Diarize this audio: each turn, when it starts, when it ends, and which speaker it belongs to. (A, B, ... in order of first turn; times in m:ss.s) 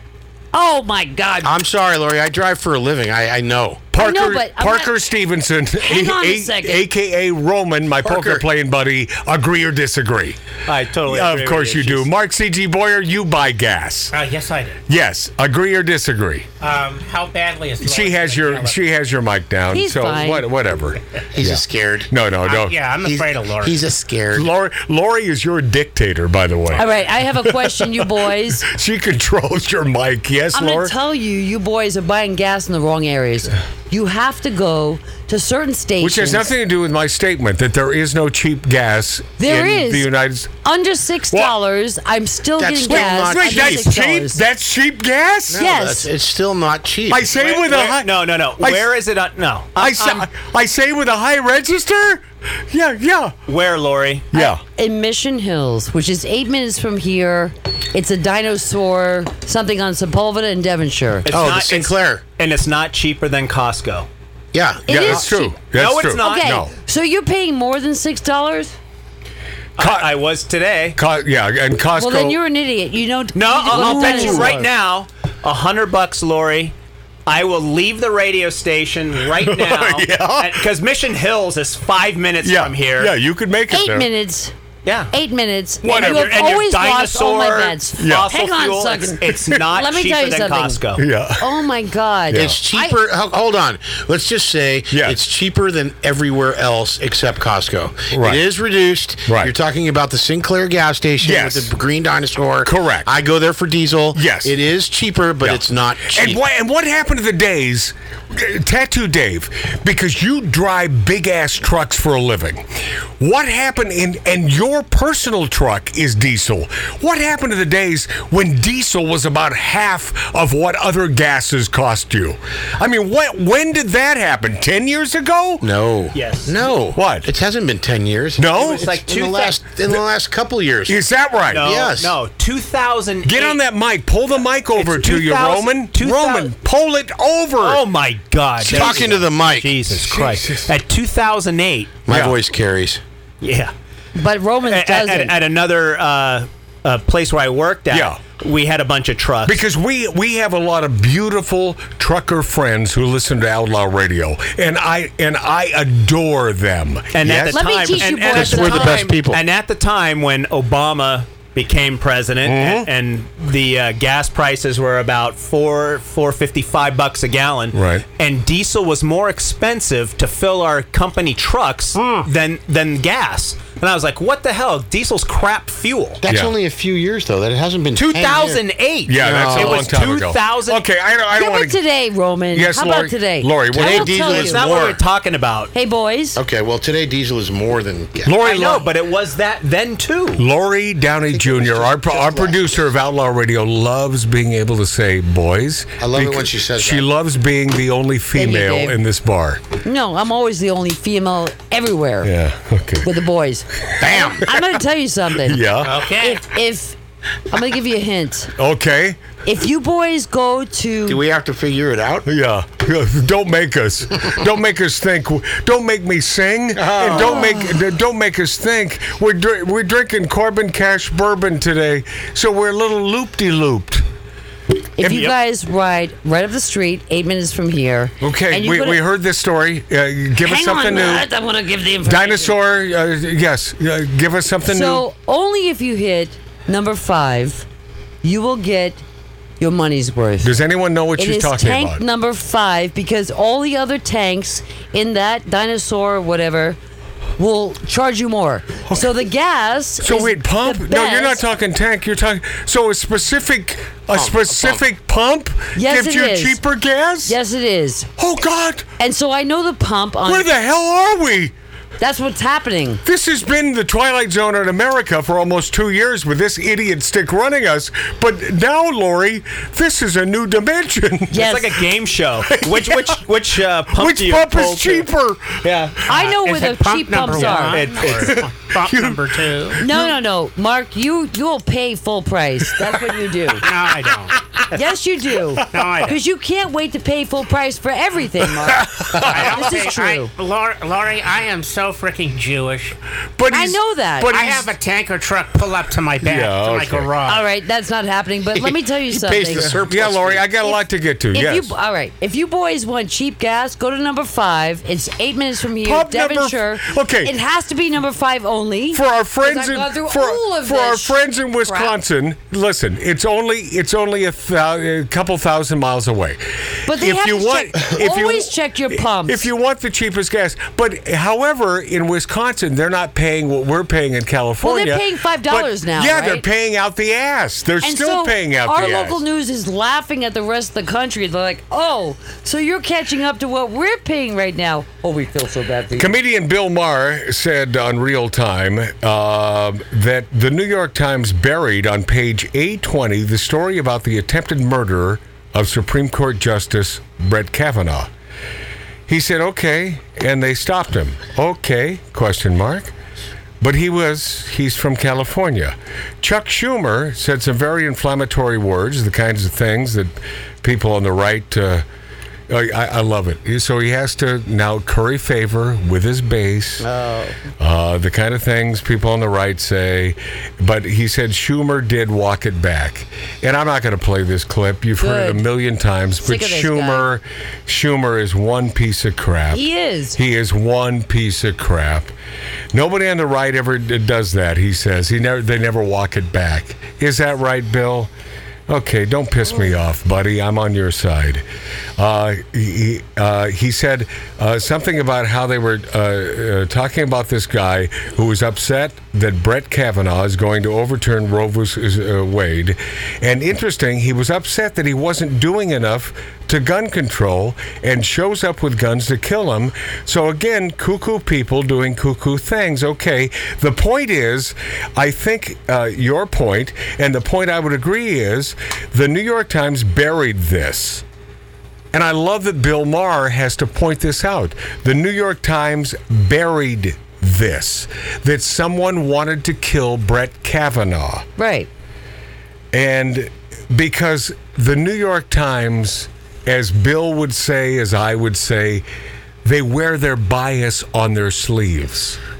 0:00.5-0:01.5 A
0:01.4-0:03.9 B
0:03.9-0:10.4 C
0:04.0-0:04.9 A
0:05.8-0:06.8 A
0:08.0-0:08.4 B
0:10.7-0:12.1 D
0:11.0-0:14.2 C
0:14.1-0:14.8 E
0:14.9-0:16.5 C
0:16.6-0:18.8 E
0:17.8-0:22.8 C
0:19.7-0:20.5 A
0:21.4-0:22.1 B
0:22.4-0:23.8 E
0:23.0-0:24.5 B
0:24.3-0:30.9 C
0:26.7-0:28.7 A
0:30.5-0:36.5 A
0:36.0-0:40.5 C
0:39.4-0:40.1 A
0:40.6-0:44.4 A
0:42.6-0:43.9 B
0:42.9-0:45.6 C
0:45.5-0:47.3 B
0:45.5-0:46.1 A
0:47.1-0:48.9 C
0:47.3-0:50.3 D
0:49.8-0:53.4 C
0:53.5-0:54.3 D
0:54.3-0:54.6 C
0:54.3-1:01.3 A
1:01.2-1:04.1 D
1:01.3-1:02.2 B
1:04.5-1:05.2 B
1:04.9-1:05.5 A
1:04.9-1:06.7 C
1:05.7-1:06.5 D
1:06.2-1:08.7 A
1:09.8-1:11.0 D
1:09.8-1:10.2 C
1:11.0-1:12.4 C
1:12.0-1:14.6 A
1:13.3-1:16.7 D
1:13.7-1:14.6 C
1:17.3-1:23.1 D
1:19.4-1:20.6 C
1:22.4-1:24.1 C
1:23.7-1:24.5 A
1:24.8-1:25.1 D
1:25.1-1:30.8 A
1:25.8-1:26.5 C
1:25.8-1:31.0 D
1:28.0-1:28.3 C
1:31.0-1:31.6 C
1:31.4-1:33.0 A
1:32.3-1:32.6 C
1:32.3-1:46.4 B
1:34.9-1:35.2 C
1:38.1-1:38.4 C
1:39.2-1:39.5 C
1:41.2-1:41.7 C
1:42.6-1:43.1 C
1:44.1-1:44.5 C
1:45.4-1:52.7 C
1:53.2-2:05.7 C
2:05.6-2:11.0 B
2:06.1-2:06.6 D
2:06.9-2:07.3 C
2:08.4-2:08.9 C
2:08.6-2:09.6 D
2:10.9-2:11.7 C
2:11.5-2:13.6 D
2:11.6-2:12.2 B
2:13.2-2:17.8 C
2:14.8-2:16.5 D
2:17.6-2:22.0 D
2:18.6-2:19.8 B
2:18.6-2:19.0 C
2:20.0-2:20.7 C
2:22.0-2:23.0 B
2:22.1-2:22.4 C
2:23.4-2:23.7 D
2:24.2-2:25.3 A
2:24.7-2:29.6 D
2:27.9-2:28.2 C
2:29.4-2:38.0 C
2:37.1-2:56.2 D
2:37.5-2:39.1 A
2:38.2-2:39.4 B
2:42.4-2:42.9 C
2:47.7-2:48.0 C
2:56.2-2:58.6 B
2:56.3-2:56.5 C
2:58.0-3:00.8 D
2:59.1-3:01.8 C
2:59.2-2:59.9 B
3:01.3-3:04.6 A
3:02.5-3:04.1 C
3:03.7-3:05.0 B
3:04.0-3:05.7 D
3:05.7-3:06.4 A
3:06.4-3:08.3 B
3:08.2-3:08.9 C
3:08.4-3:10.4 D
3:10.4-3:19.6 C
3:11.3-3:12.6 B
3:16.0-3:17.0 B
3:18.3-3:19.0 A
3:19.8-3:22.3 A
3:22.2-3:23.1 C
3:23.0-3:27.0 A
3:23.9-3:24.7 C
3:24.0-3:24.4 B
3:25.4-3:26.0 C
3:25.8-3:26.4 E
3:27.5-3:28.5 A
3:28.6-3:29.2 C
3:29.4-3:31.2 A
3:31.0-3:32.3 B
3:32.2-3:44.0 C
3:36.8-3:37.5 B
3:37.1-3:37.7 A
3:45.0-3:49.0 A
3:45.0-3:45.3 C
3:48.2-3:51.3 C
3:50.4-3:52.6 A
3:52.0-3:55.0 C
3:54.6-3:57.6 A
3:58.2-3:59.0 A
3:59.6-4:00.5 A
4:00.4-4:02.0 C
4:01.2-4:06.8 A
4:07.4-4:11.4 A
4:10.0-4:17.4 C
4:14.2-4:14.8 B
4:15.7-4:16.6 A
4:17.2-4:18.1 A
4:18.2-4:18.9 C
4:19.0-4:20.5 A
4:20.2-4:21.5 C
4:22.0-4:23.0 A
4:23.0-4:31.6 C
4:31.3-4:31.6 A
4:31.3-4:35.1 D
4:32.5-4:33.2 C
4:33.9-4:35.7 C
4:35.6-4:36.0 D
4:36.1-4:37.8 A
4:36.1-4:39.8 E
4:37.4-4:38.4 D
4:38.0-4:40.1 C
4:39.8-4:43.6 A
4:43.6-4:44.4 E
4:44.7-4:50.3 A
4:45.6-4:45.9 C
4:45.7-4:46.2 E
4:48.6-4:49.7 C
4:49.2-4:52.9 E
4:53.4-4:54.7 C
4:53.5-4:54.3 A
4:54.2-4:57.4 E
4:56.2-4:57.1 C
4:57.2-4:59.7 A
4:58.5-5:00.4 B
4:59.6-5:01.7 C
5:01.3-5:11.9 A
5:05.8-5:07.3 C
5:08.9-5:29.2 C
5:16.8-5:19.5 A
5:24.6-5:26.4 A
5:27.8-5:36.1 A
5:35.9-5:48.1 C
5:49.1-5:52.9 C
5:53.6-6:01.8 C
6:02.5-6:06.8 C
6:06.8-6:07.4 A
6:07.6-6:22.1 C
6:15.0-6:15.4 A
6:16.2-6:17.1 A
6:19.5-6:20.2 A
6:22.7-6:28.1 C
6:28.7-6:31.4 C
6:32.0-7:01.0 C
7:01.9-7:11.3 C
7:11.4-7:11.7 A
7:12.7-7:18.8 C
7:19.4-7:22.2 C